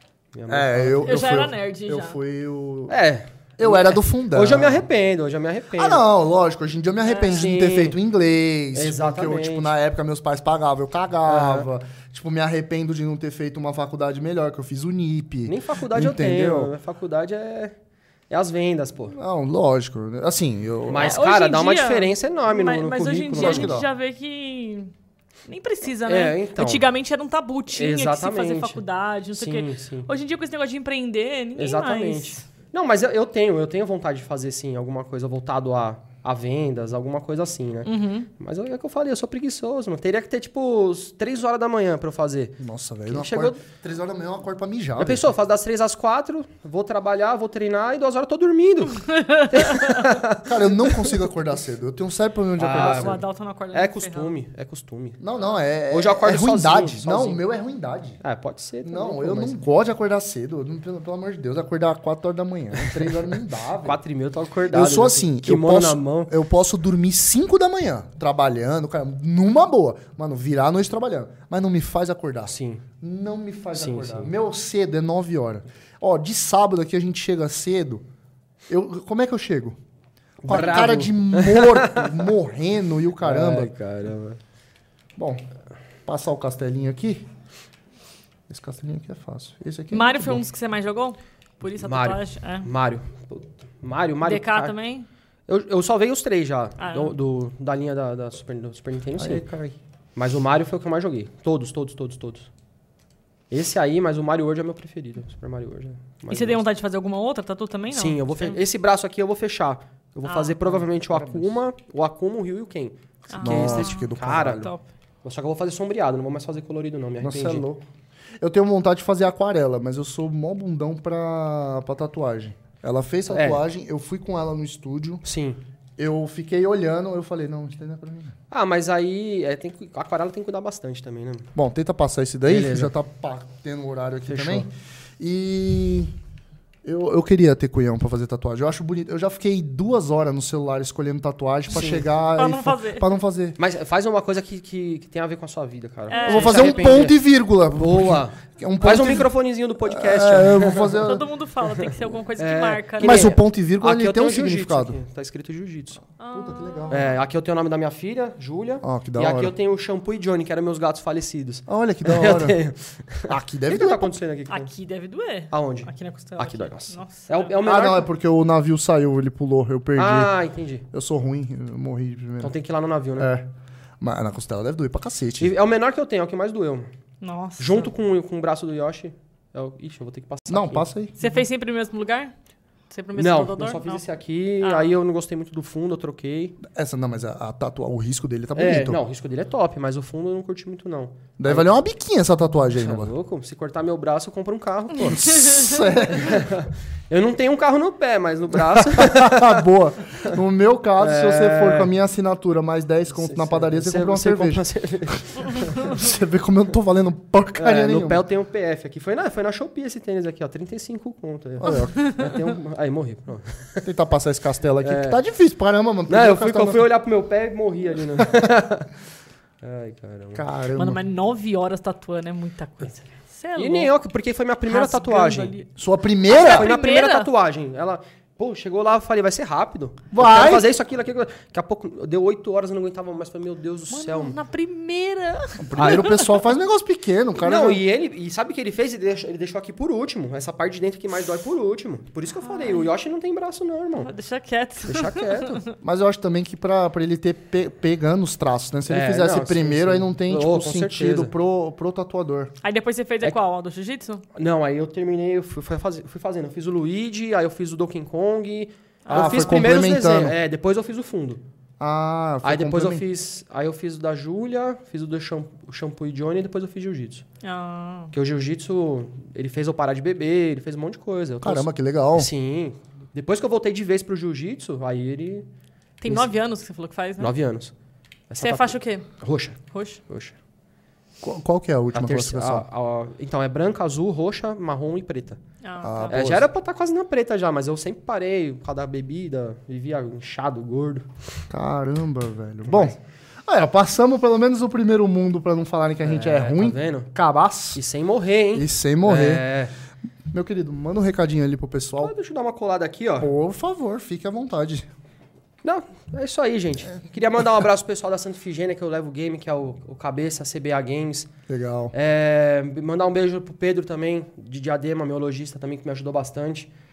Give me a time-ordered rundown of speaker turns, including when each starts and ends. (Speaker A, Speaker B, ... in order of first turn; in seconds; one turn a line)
Speaker A: 0.3-1.2
Speaker B: 0.5-3.0
Speaker C: 1.0-2.2
Speaker A: 2.9-6.0
Speaker B: 3.6-4.9
Speaker B: 5.7-16.7
Speaker A: 7.1-8.0
Speaker A: 8.7-9.7
Speaker A: 11.3-11.7
Speaker A: 15.4-17.8
Speaker A: 18.3-19.1
Speaker B: 19.1-21.2
Speaker A: 20.9-23.8
Speaker C: 20.9-24.9
Speaker B: 23.3-23.9
Speaker C: 25.4-32.4
Speaker A: 26.0-26.9
Speaker A: 27.7-28.8
Speaker A: 29.3-30.1
Speaker A: 31.6-43.6
Speaker C: 37.9-38.3
Speaker B: 42.6-45.3
Speaker A: 45.0-51.1
Speaker C: 49.3-50.0
Speaker B: 50.4-53.2
Speaker A: 52.6-53.2
Speaker C: 52.7-54.3
Speaker A: 53.7-55.2
Speaker B: 55.2-58.2
Speaker A: 55.9-57.4
Speaker A: 58.2-59.6
Speaker B: 58.8-64.0
Speaker A: 62.8-63.1
Speaker A: 63.8-66.3
Speaker B: 64.7-78.0
Speaker A: 72.5-72.8
Speaker A: 73.7-74.3
Speaker B: 78.7-79.8
Speaker A: 80.4-82.3
Speaker B: 80.4-83.7
Speaker A: 83.2-84.4
Speaker B: 85.2-85.4
Speaker B: 86.0-87.3
Speaker B: 88.5-90.4
Speaker C: 89.9-92.7
Speaker A: 91.7-94.7
Speaker C: 94.2-95.1
Speaker A: 95.5-99.5
Speaker C: 96.8-97.1
Speaker B: 99.2-99.8
Speaker A: 100.2-102.5
Speaker A: 103.5-106.6
Speaker C: 106.3-108.6
Speaker A: 107.9-114.7
Speaker C: 110.2-110.8
Speaker B: 111.1-111.5
Speaker C: 113.3-114.8
Speaker B: 113.4-114.7
Speaker A: 115.2-117.7
Speaker B: 117.2-117.8
Speaker B: 118.4-125.2
Speaker A: 123.3-123.6
Speaker A: 125.2-125.6
Speaker B: 126.0-128.3
Speaker A: 128.5-131.5
Speaker B: 131.5-134.7
Speaker A: 132.4-132.9
Speaker A: 134.3-134.7
Speaker B: 135.2-136.1
Speaker B: 136.8-143.6
Speaker A: 141.7-142.1
Speaker C: 142.3-143.0
Speaker A: 143.6-147.2
Speaker C: 146.1-147.1
Speaker B: 146.2-151.2
Speaker A: 147.7-151.1
Speaker C: 151.0-153.4
Speaker A: 152.3-156.0
Speaker B: 153.0-155.0
Speaker C: 156.2-157.2
Speaker B: 156.3-157.1
Speaker A: 156.9-164.7
Speaker B: 158.8-159.5
Speaker B: 161.7-162.6
Speaker B: 163.3-164.2
Speaker C: 164.5-167.5
Speaker A: 165.5-168.1
Speaker B: 167.6-170.3
Speaker A: 169.9-170.8
Speaker B: 170.9-172.6
Speaker A: 172.4-173.3
Speaker B: 173.2-173.5
Speaker B: 174.0-175.5
Speaker A: 175.4-176.9
Speaker C: 177.2-177.9
Speaker A: 177.6-181.4
Speaker B: 180.5-181.2
Speaker C: 181.2-182.3
Speaker C: 182.9-184.0
Speaker A: 183.2-186.6
Speaker C: 184.6-184.9
Speaker B: 186.6-189.0
Speaker A: 188.5-191.7
Speaker B: 191.4-193.1
Speaker A: 192.8-195.5
Speaker B: 195.0-196.5
Speaker A: 196.1-199.6
Speaker B: 198.6-204.6
Speaker A: 201.0-201.9
Speaker A: 203.1-206.0
Speaker B: 205.1-208.2
Speaker A: 207.5-213.9
Speaker B: 211.6-212.1
Speaker C: 211.7-212.0
Speaker B: 213.8-216.9
Speaker A: 214.8-215.2
Speaker A: 216.1-218.9
Speaker A: 219.6-220.4
Speaker B: 220.3-221.0
Speaker C: 220.7-223.9
Speaker A: 223.6-225.6
Speaker C: 224.7-225.7
Speaker B: 225.8-226.7
Speaker C: 226.3-227.3
Speaker A: 226.3-234.4
Speaker B: 230.1-230.7
Speaker C: 233.9-236.3
Speaker B: 235.6-237.8
Speaker A: 235.8-236.3
Speaker A: 237.4-244.1
Speaker C: 242.4-242.9
Speaker C: 244.0-245.7
Speaker A: 244.8-245.6
Speaker B: 245.8-252.5
Speaker A: 248.9-251.3
Speaker C: 252.6-254.2
Speaker A: 254.3-261.4
Speaker C: 259.1-259.6
Speaker B: 259.1-260.3
Speaker B: 261.8-263.0
Speaker A: 262.4-267.2
Speaker C: 267.4-268.1
Speaker A: 268.1-275.4
Speaker B: 271.4-272.3
Speaker C: 276.0-277.3
Speaker A: 277.2-277.7
Speaker A: 278.3-280.4
Speaker C: 278.4-279.1
Speaker C: 279.7-280.0
Speaker B: 281.2-282.6
Speaker A: 281.9-285.4
Speaker C: 285.6-286.2
Speaker B: 285.8-286.5
Speaker A: 286.1-291.1
Speaker B: 291.5-297.8
Speaker A: 292.6-293.0
Speaker A: 296.0-297.1
Speaker A: 297.7-299.7
Speaker B: 298.5-299.4
Speaker B: 300.3-302.1
Speaker A: 302.0-303.3
Speaker B: 303.2-304.9
Speaker A: 305.6-311.3
Speaker B: 311.5-311.9
Speaker A: 311.9-316.7